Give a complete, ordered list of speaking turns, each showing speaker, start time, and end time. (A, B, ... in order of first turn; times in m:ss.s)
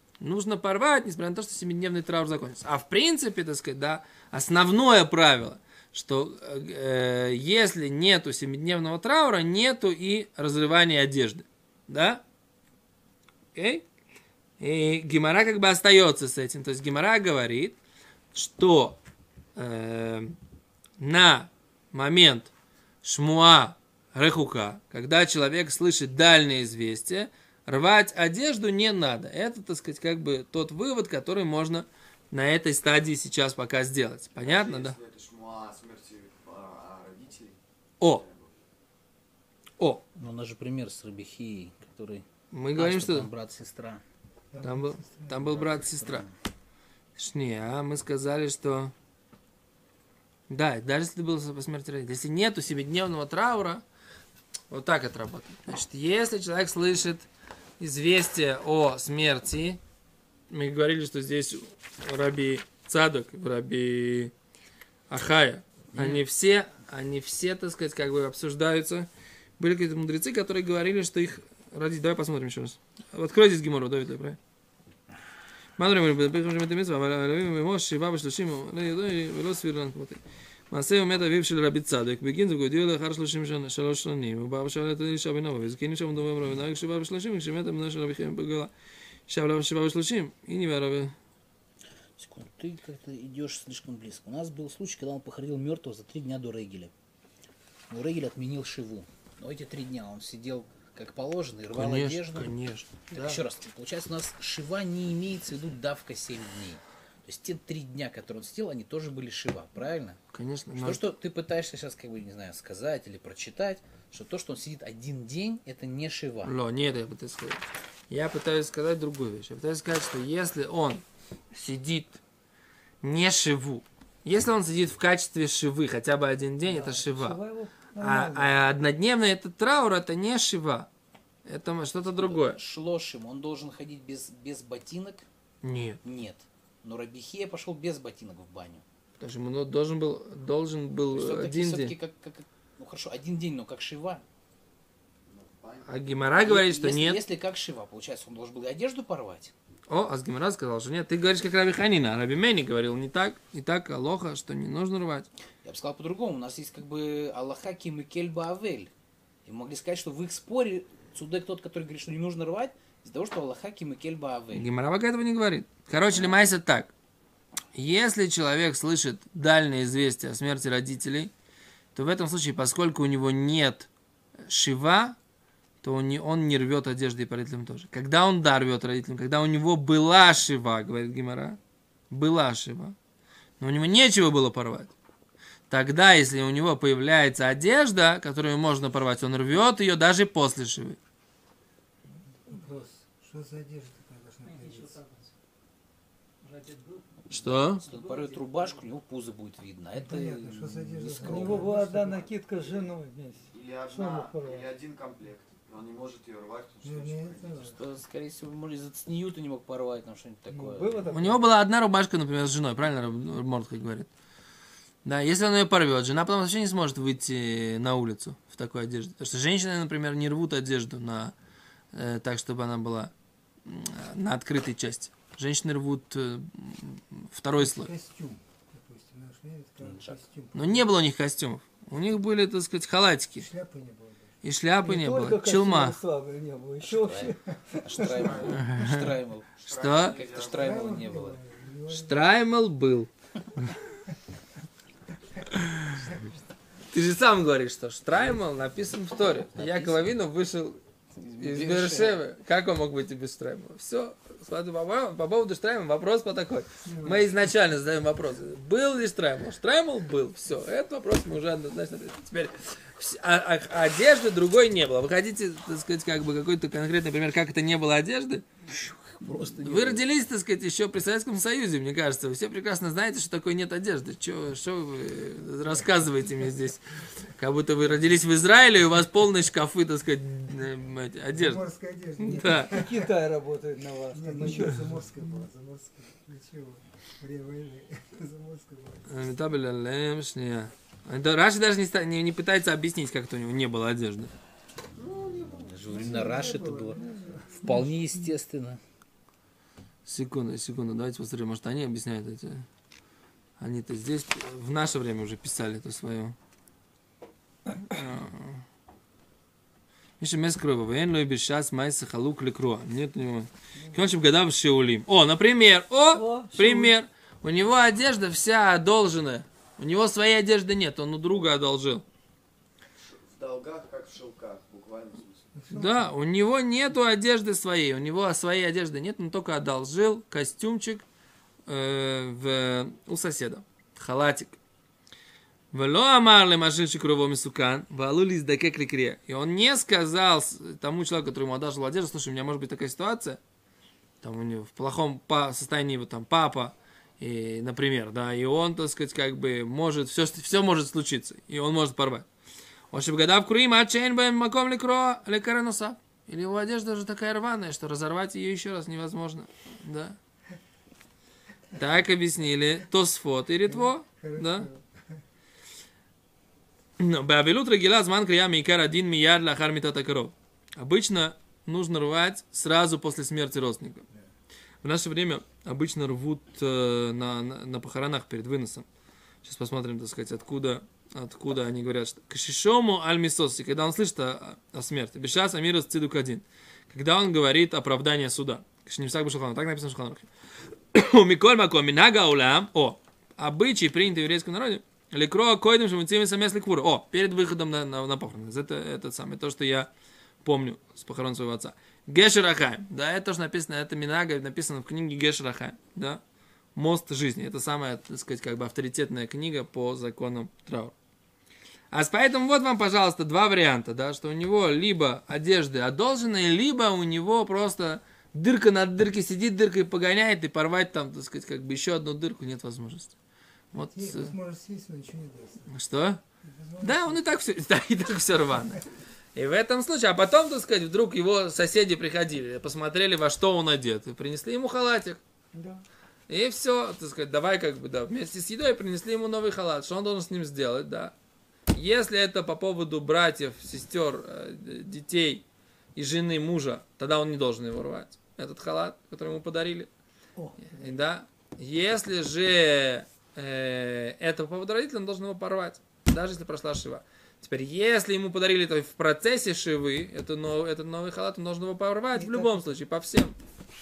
0:00.2-0:12.2 A
0:13.5-0:13.8 A
0:14.6-0:17.8 A
0:18.3-0:19.0 A
0:19.6-0:20.4 A
0:21.0-0:22.5 A
0:23.0-0:35.0 A
0:34.4-0:38.5 B
0:40.2-0:42.2 C
0:42.5-0:43.3 A
0:42.7-0:44.0 C
0:44.5-0:46.1 D
0:44.6-0:46.3 A
0:46.0-0:46.2 C
0:47.2-0:48.9 A
0:50.5-0:53.8 A
0:54.7-0:57.3 A
0:57.8-0:59.8 A
1:00.5-1:04.3 A
1:05.1-1:14.4 A
1:15.8-1:28.7 A
1:29.3-1:31.1 A
1:32.2-1:36.9 C
1:37.9-1:42.5 C
1:41.7-1:43.4 A
1:43.1-1:50.2 C
1:50.3-1:51.1 A
1:50.7-1:56.5 C
1:56.4-2:02.2 A
2:03.0-2:07.4 A
2:06.6-2:08.6 E
2:08.0-2:10.9 A
2:11.4-2:12.6 A
2:12.0-2:15.2 C
2:15.6-2:16.0 A
2:16.0-2:18.8 C
2:19.2-2:22.0 A
2:21.1-2:24.2 C
2:25.3-2:26.0 B
2:25.8-2:27.2 A
2:26.4-2:29.5 C
2:29.9-2:35.3 A
2:35.6-2:38.9 C
2:39.4-2:44.7 C
2:44.5-2:46.9 A
2:47.7-2:51.3 A
2:51.9-2:53.9 A
2:54.5-2:55.2 A
2:55.8-3:01.6 A
3:02.1-3:02.9 A
3:03.6-3:04.9 A
3:05.7-3:11.0 A
3:12.3-3:15.0 D
3:16.5-3:17.0 E
3:17.3-3:17.8 A
3:17.5-3:21.8 C
3:19.9-3:22.2 D
3:21.2-3:24.7 E
3:23.5-3:27.8 B
3:26.8-3:27.8 D
3:27.8-3:31.1 C
3:30.5-3:31.4 E
3:31.1-3:34.1 A
3:35.0-3:41.3 A
3:41.9-3:43.1 A
3:43.6-3:47.9 A
3:47.6-3:51.0 D
3:49.8-3:50.2 C
3:50.5-3:53.5 A
3:53.4-3:54.4 D
3:54.4-3:56.0 A
3:54.8-3:58.6 E
3:56.8-4:01.4 C
3:58.1-3:59.0 B
3:58.5-3:59.1 A
3:59.6-4:01.0 B
3:59.7-4:00.2 A
4:00.5-4:02.2 D
4:01.9-4:03.1 A
4:05.3-4:06.4 D
4:06.9-4:10.8 A
4:09.5-4:10.1 C
4:11.2-4:12.2 C
4:11.3-4:28.4 A
4:16.8-4:17.4 D
4:28.7-4:30.0 C
4:29.6-4:41.7 A
4:41.3-4:43.1 D
4:42.2-4:42.7 A
4:42.4-4:45.0 E
4:44.1-4:49.2 D
4:49.1-4:54.3 A
4:55.0-4:58.0 D
4:55.6-4:57.0 C
4:57.6-4:58.8 C
5:00.0-5:02.6 A
5:03.6-5:06.3 A
5:07.7-5:08.6 A
5:10.2-5:22.0 A
5:16.1-5:16.9 E
5:23.0-5:25.5 B
5:25.5-5:26.1 D
5:25.7-5:31.0 A
5:31.7-5:34.6 A
5:35.7-5:43.4 A
5:44.2-5:52.3 A
5:52.9-6:00.2 A
6:01.7-6:04.7 A
6:03.7-6:05.2 D
6:07.0-6:14.0 A
6:14.8-6:18.8 A
6:19.4-6:30.3 A
6:30.9-6:39.9 A
6:40.4-6:46.2 A
6:46.7-6:50.9 A
6:51.9-7:03.2 A
7:03.7-7:04.3 A
7:03.7-7:05.7 D
7:05.7-7:06.2 A
7:06.4-7:07.2 D
7:06.8-7:15.2 A
7:15.5-7:15.8 E
7:16.3-7:21.1 A
7:21.7-7:25.4 A
7:26.0-7:29.9 A
7:30.4-7:30.7 E
7:30.6-7:43.4 A
7:42.2-7:42.6 E